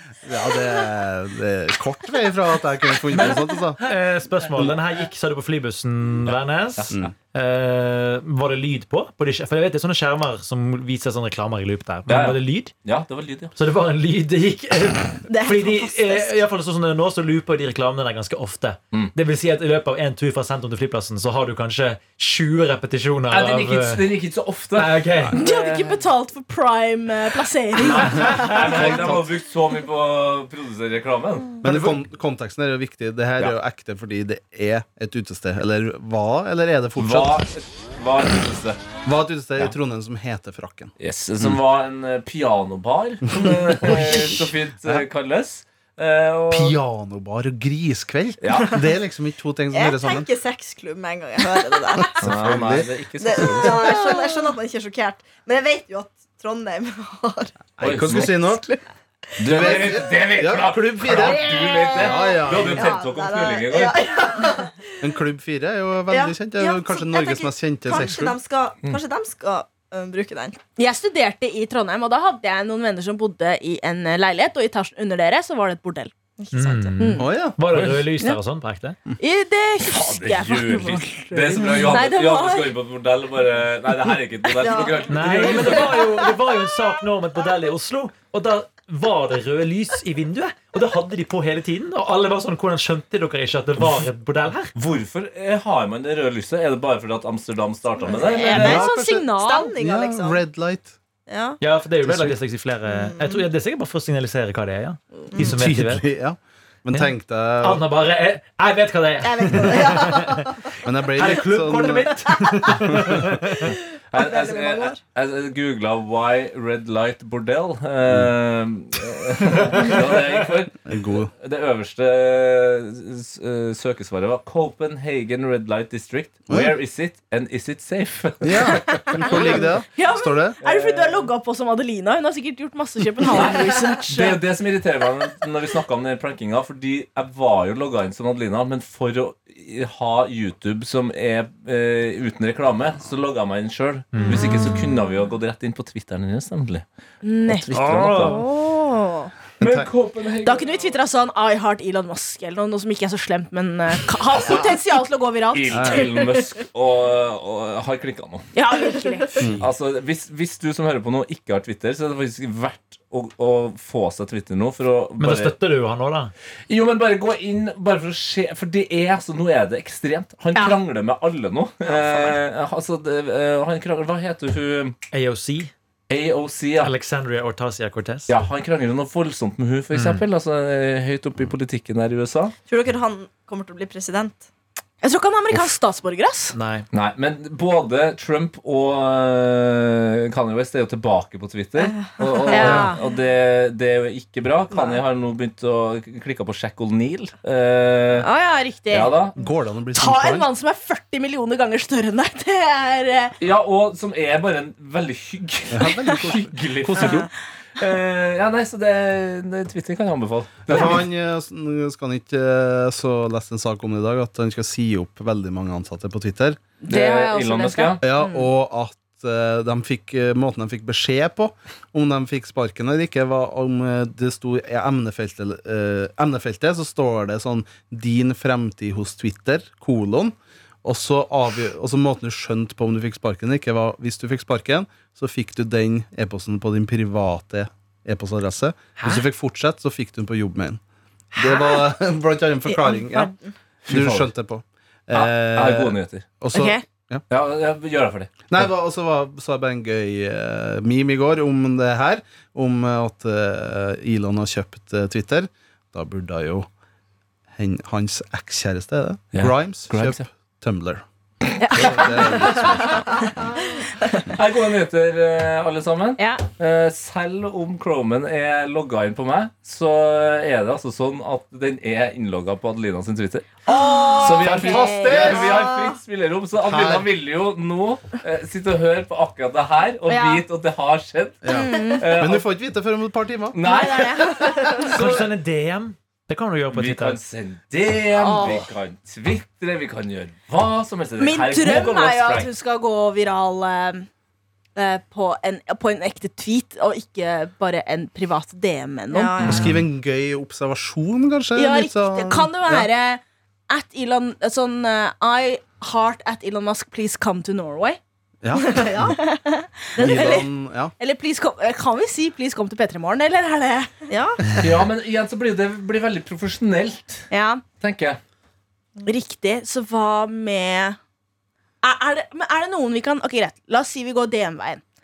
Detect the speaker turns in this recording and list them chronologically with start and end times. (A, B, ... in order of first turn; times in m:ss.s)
0:00.2-0:03.8 A
0:03.1-0:12.7 B
0:06.8-0:07.1 C
0:12.1-0:13.5 C
0:13.6-0:24.1 B
0:15.3-0:16.4 D
0:23.3-0:26.0 C
0:24.7-0:25.3 B
0:25.3-0:28.5 E
0:27.8-0:28.9 B
0:28.2-0:32.0 C
0:28.3-0:29.3 A
0:31.6-0:37.4 A
0:37.0-0:38.8 C
0:39.0-0:41.6 A
0:41.0-0:46.8 C
0:43.3-0:45.0 A
0:46.5-0:50.3 A
0:48.4-0:48.8 C
0:49.7-0:52.6 D
0:52.1-0:53.9 A
0:52.2-0:54.0 C
0:53.2-0:57.5 D
0:57.8-0:58.8 A
0:57.8-0:58.4 C
0:59.4-1:04.4 C
0:59.4-1:02.9 A
1:01.4-1:04.8 D
1:01.4-1:02.0 E
1:05.0-1:08.4 A
1:06.1-1:10.6 D
1:10.8-1:16.1 E
1:16.4-1:17.0 D
1:16.5-1:19.0 B
1:17.0-1:17.2 E
1:17.2-1:17.6 A
1:17.7-1:18.0 C
1:19.2-1:22.7 E
1:19.8-1:26.0 C
1:24.6-1:25.0 D
1:25.1-1:34.7 B
1:25.7-1:25.9 D
1:34.7-1:38.8 C
1:38.0-1:40.4 D
1:38.2-1:39.7 E
1:38.6-1:40.9 A
1:41.3-1:41.6 D
1:41.6-1:46.0 B
1:42.0-1:42.4 A
1:42.9-1:43.4 D
1:45.3-1:45.6 D
1:45.4-1:47.8 A
1:47.6-1:50.5 B
1:49.2-1:50.6 D
1:50.8-1:53.4 A
1:51.1-1:53.7 B
1:51.8-1:52.8 D
1:53.6-1:55.0 D
1:54.1-2:00.8 C
1:58.0-1:58.3 A
2:00.8-2:01.3 A
2:01.4-2:09.6 C
2:06.5-2:06.7 A
2:08.4-2:10.6 A
2:09.9-2:14.4 E
2:10.6-2:11.2 C
2:13.2-2:26.8 C
2:24.1-2:24.7 B
2:27.2-2:29.3 E
2:27.4-2:28.4 C
2:27.7-2:28.4 B
2:29.6-2:30.9 C
2:29.6-2:29.9 A
2:30.4-2:36.1 E
2:35.5-2:38.4 C
2:35.7-2:36.1 A
2:38.5-2:39.5 E
2:39.4-2:39.6 A
2:39.6-2:45.6 C
2:45.2-2:46.3 B
2:46.7-2:55.0 C
2:51.8-2:52.4 D
2:55.1-2:55.7 B
2:56.1-2:56.9 C
2:56.8-2:58.4 B
2:58.3-3:02.5 C
2:59.9-3:00.2 B
3:02.7-3:04.4 D
3:05.0-3:06.5 E
3:06.5-3:06.8 B
3:06.9-3:18.3 C
3:11.8-3:12.8 D
3:12.5-3:13.0 E
3:12.6-3:12.9 A
3:14.7-3:15.0 D
3:18.2-3:19.2 E
3:18.9-3:19.3 C
3:19.4-3:20.5 A
3:19.9-3:23.3 E
3:23.4-3:31.0 C
3:25.7-3:27.3 A
3:30.7-3:36.6 A
3:36.8-3:38.5 E
3:36.9-3:38.0 C
3:38.0-4:00.8 A
4:01.4-4:03.3 A
4:01.4-4:01.8 E
4:02.7-4:03.3 E
4:03.8-4:04.3 C
4:03.9-4:07.2 A
4:05.1-4:06.2 C
4:06.5-4:06.8 E
4:07.3-4:08.5 C
4:08.5-4:16.7 A
4:17.6-4:21.0 A
4:19.3-4:20.2 C
4:21.6-4:22.8 E
4:21.7-4:23.0 A
4:21.8-4:22.7 C
4:24.3-4:41.4 C
4:26.2-4:26.4 E
4:33.6-4:35.6 E
4:34.2-4:35.6 A
4:35.3-4:35.9 D
4:36.6-4:37.1 A
4:40.1-4:40.4 E
4:41.4-4:43.8 A
4:41.5-4:42.0 E
4:42.0-4:42.4 C
4:43.5-4:45.2 C
4:43.6-4:44.9 E
4:44.2-4:44.8 D
4:44.9-4:47.2 B
4:46.7-4:52.5 C
4:48.1-4:48.7 E
4:51.2-4:54.1 E
4:54.8-4:59.4 E
4:59.1-4:59.8 D
4:59.4-5:02.9 A
5:01.6-5:08.0 E
5:08.4-5:09.1 A
5:08.6-5:09.2 D
5:09.2-5:10.5 E
5:10.0-5:10.4 D
5:10.0-5:10.9 A
5:11.0-5:13.9 E
5:14.1-5:14.7 D
5:14.6-5:17.2 C
5:17.3-5:17.6 E
5:17.8-5:18.2 C
5:19.0-5:21.0 E
5:21.8-5:24.8 E